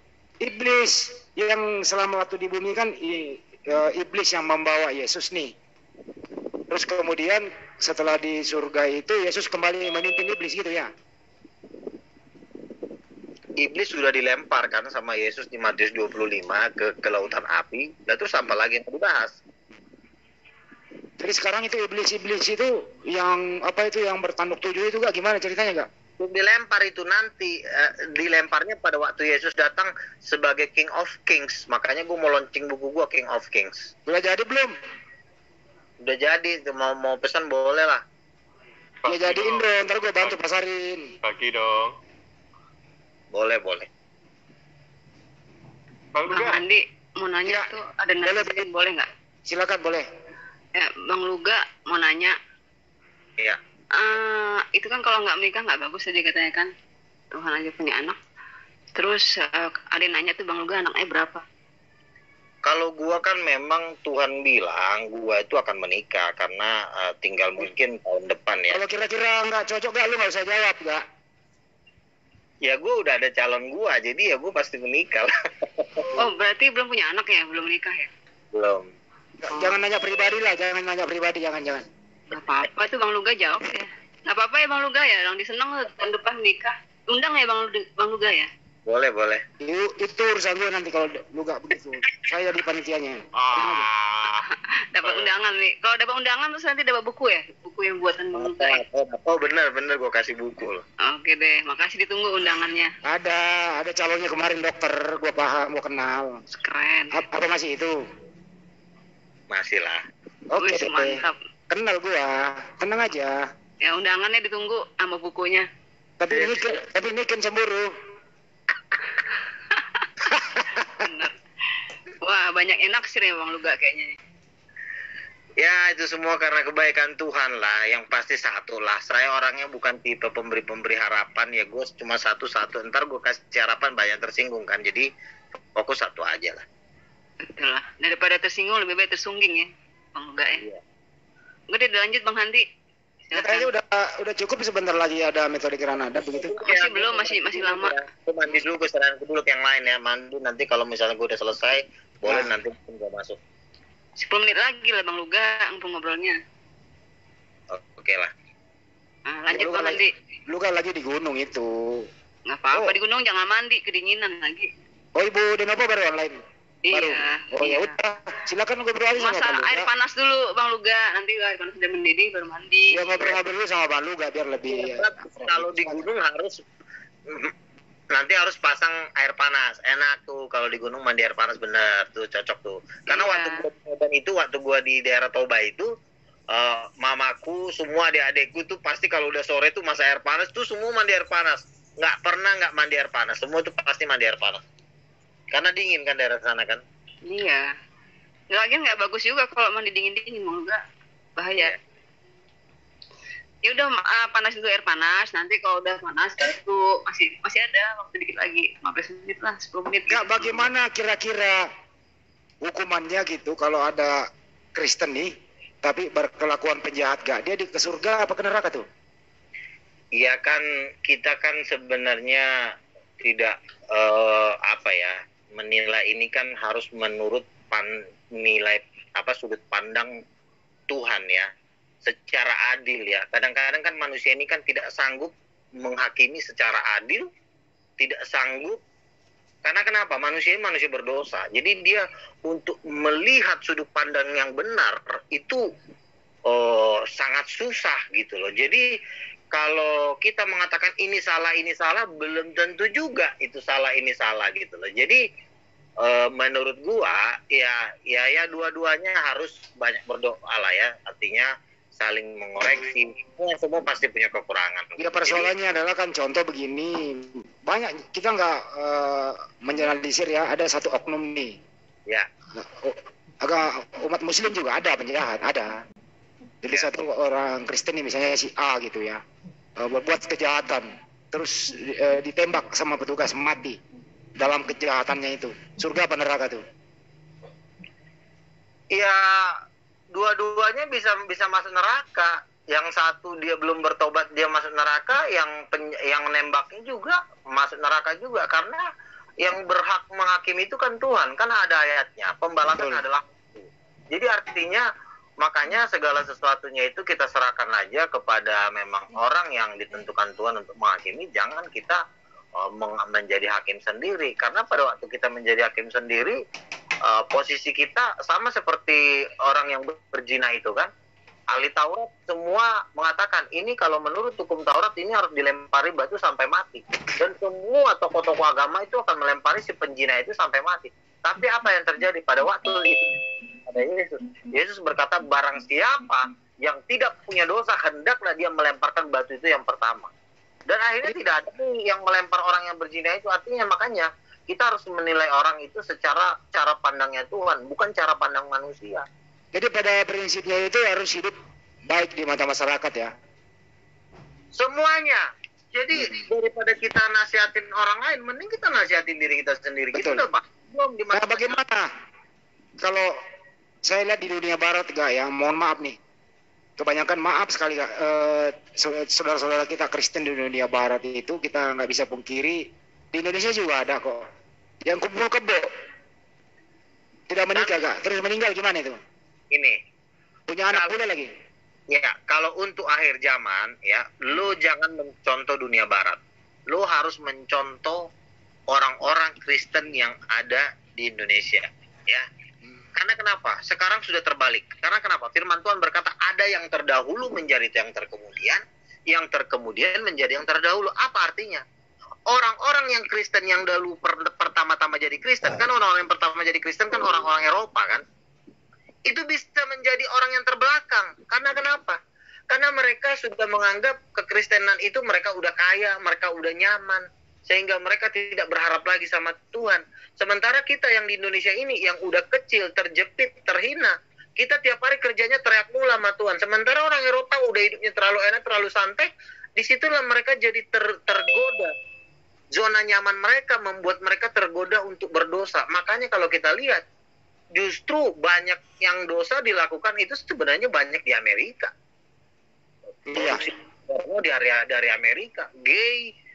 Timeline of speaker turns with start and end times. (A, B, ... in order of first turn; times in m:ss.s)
0:00.4-0:05.5 A
0:06.7-0:10.9 A
0:13.6-0:19.4 B
0:21.2-0:25.9 A
0:26.2-0:33.9 B
0:34.1-0:34.7 A
0:36.0-0:38.0 B
0:39.0-0:39.7 C
0:39.1-0:41.1 A
0:41.2-0:42.0 C
0:43.3-0:43.9 B
0:46.1-0:46.6 C
0:46.3-0:49.1 D
0:48.2-0:48.6 A
0:49.5-0:50.1 A
0:50.8-0:52.4 D
0:54.0-0:56.7 D
0:57.3-0:58.2 D
0:59.0-1:01.4 D
1:02.6-1:08.8 B
1:08.7-1:11.0 A
1:12.6-1:16.1 B
1:16.2-1:18.1 D
1:18.5-1:18.9 B
1:19.4-1:21.9 A
1:19.5-1:19.8 D
1:22.3-1:28.5 D
1:28.9-1:29.4 B
1:29.6-1:33.9 A
1:33.4-1:34.3 C
1:34.9-1:38.8 D
1:35.0-1:35.3 C
1:38.4-1:40.8 B
1:41.0-1:42.9 D
1:43.0-1:46.4 A
1:46.5-1:47.2 D
1:47.1-1:48.0 A
1:49.5-1:50.0 B
1:50.5-1:53.4 A
1:50.6-1:51.4 D
1:53.8-1:55.7 D
1:56.2-1:57.9 A
1:56.3-1:56.7 B
2:00.3-2:01.1 A
2:01.0-2:01.4 D
2:02.2-2:04.2 D
2:05.6-2:15.1 B
2:15.8-2:16.6 B
2:17.4-2:20.6 D
2:21.7-2:22.6 D
2:23.3-2:23.7 D
2:23.4-2:26.5 A
2:26.3-2:33.4 B
2:26.6-2:28.0 D
2:34.2-2:36.4 D
2:37.7-2:38.3 B
2:39.3-2:40.1 D
2:39.5-2:42.1 A
2:42.5-2:44.7 D
2:45.2-2:46.4 A
2:46.9-2:47.9 D
2:46.9-2:49.9 A
2:49.2-2:53.3 D
2:52.9-2:56.1 A
2:54.7-2:56.6 B
2:58.1-3:05.9 B
3:03.1-3:03.6 D
3:06.5-3:14.6 B
3:15.5-3:16.8 B
3:17.3-3:17.7 D
3:18.5-3:20.8 D
3:21.4-3:21.7 D
3:23.6-3:30.7 D
3:30.1-3:31.6 A
3:32.6-3:35.3 A
3:35.8-3:38.8 A
3:40.2-3:42.5 B
3:43.2-3:50.1 B
3:50.9-3:51.5 B
3:52.0-3:57.3 B
3:58.0-3:58.8 B
3:59.6-4:05.6 B
4:06.5-4:08.9 B
4:09.5-4:15.2 B
4:16.0-4:25.5 B
4:25.0-4:31.6 A
4:32.6-4:35.8 A
4:36.6-4:39.2 A
4:39.8-4:43.8 A
4:44.4-4:46.6 A
4:48.9-4:49.6 B
4:50.1-4:58.8 B
4:59.4-5:04.9 B
5:02.7-5:03.0 A
5:05.4-5:12.0 B
5:12.6-5:16.4 B
5:17.0-5:20.9 B
5:21.5-5:40.1 B
5:40.7-5:49.1 B
5:49.5-5:51.4 A
5:51.9-5:53.1 A
5:54.5-6:01.6 B
5:59.9-6:00.3 A
6:01.1-6:01.9 A
6:02.8-6:03.2 A
6:03.8-6:06.0 A
6:06.8-6:14.2 A
6:14.9-6:15.7 A
6:17.3-6:19.0 A
6:17.6-6:17.8 B
6:19.5-6:19.8 B
6:20.5-6:21.3 A
6:20.7-6:21.0 B
6:21.9-6:28.1 B
6:28.7-6:32.3 B
6:33.0-6:41.6 B
6:42.3-6:48.0 B
6:49.1-6:52.0 B
6:52.5-7:11.7 B
7:12.5-7:16.8 B
7:17.6-7:21.7 B
7:23.1-7:23.4 A
7:23.1-7:26.1 B